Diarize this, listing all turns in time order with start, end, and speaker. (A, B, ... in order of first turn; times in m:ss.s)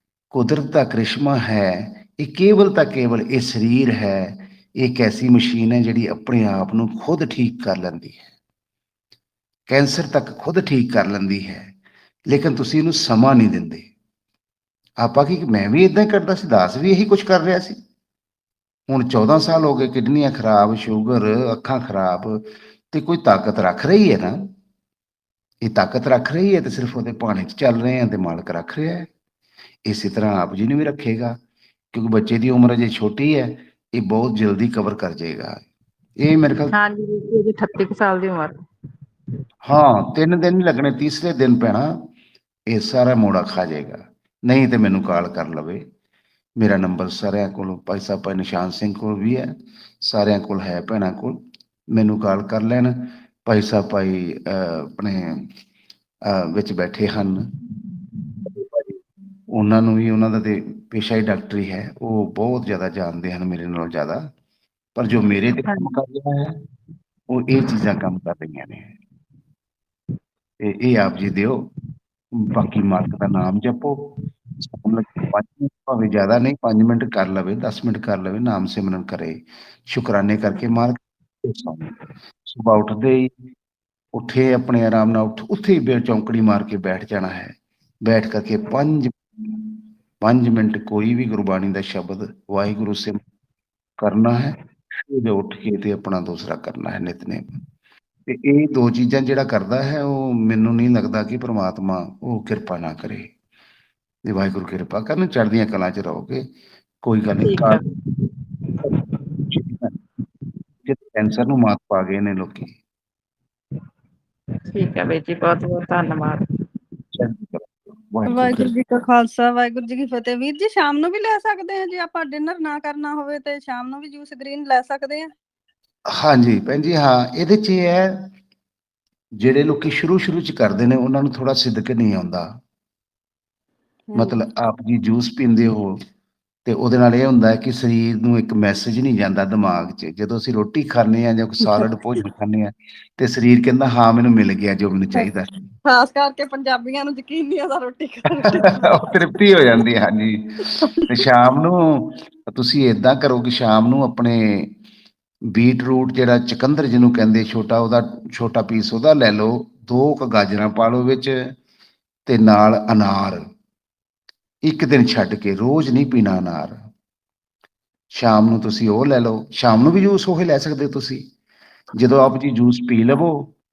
0:00.3-0:08.2 A
0:09.7-0:11.7 A
0:12.3-0:13.8 A
0:15.0-0:17.7 A
0:18.9-0:24.4 A
0:25.6-0:29.1 A
0:29.8-0:31.3 A
0:31.9-0:35.6 A
0:36.2-0:36.8 A
0:36.7-0:38.6 B
0:39.6-0:41.9 A
0:42.7-0:45.8 A
0:46.6-0:49.4 A
0:50.0-0:51.4 A
0:51.9-0:55.4 A
0:56.3-0:57.4 A
0:58.4-0:59.0 A
0:59.5-1:04.2 A
1:05.0-1:06.6 A
1:05.6-1:06.0 B
1:07.3-1:08.9 A
1:10.6-1:11.6 A
1:12.4-1:14.1 A
1:14.7-1:21.9 A
1:22.4-1:23.3 A
1:24.1-1:27.5 A
1:28.0-1:33.2 A
1:34.0-1:37.6 A
1:38.3-1:43.3 A
1:44.3-1:46.4 A
1:47.0-1:47.9 A
1:47.4-1:47.8 B
1:49.5-1:49.9 A
1:50.8-1:52.8 A
1:54.7-1:56.4 B
1:57.1-1:58.8 A
1:58.8-2:05.1 C
2:06.1-2:08.3 A
2:09.4-2:12.5 A
2:14.1-2:16.0 A
2:16.6-2:25.7 A
2:28.4-2:34.7 A
2:35.5-2:41.5 A
2:42.2-2:43.4 A
2:44.6-2:46.8 A
2:48.1-2:51.2 A
2:52.0-2:53.5 A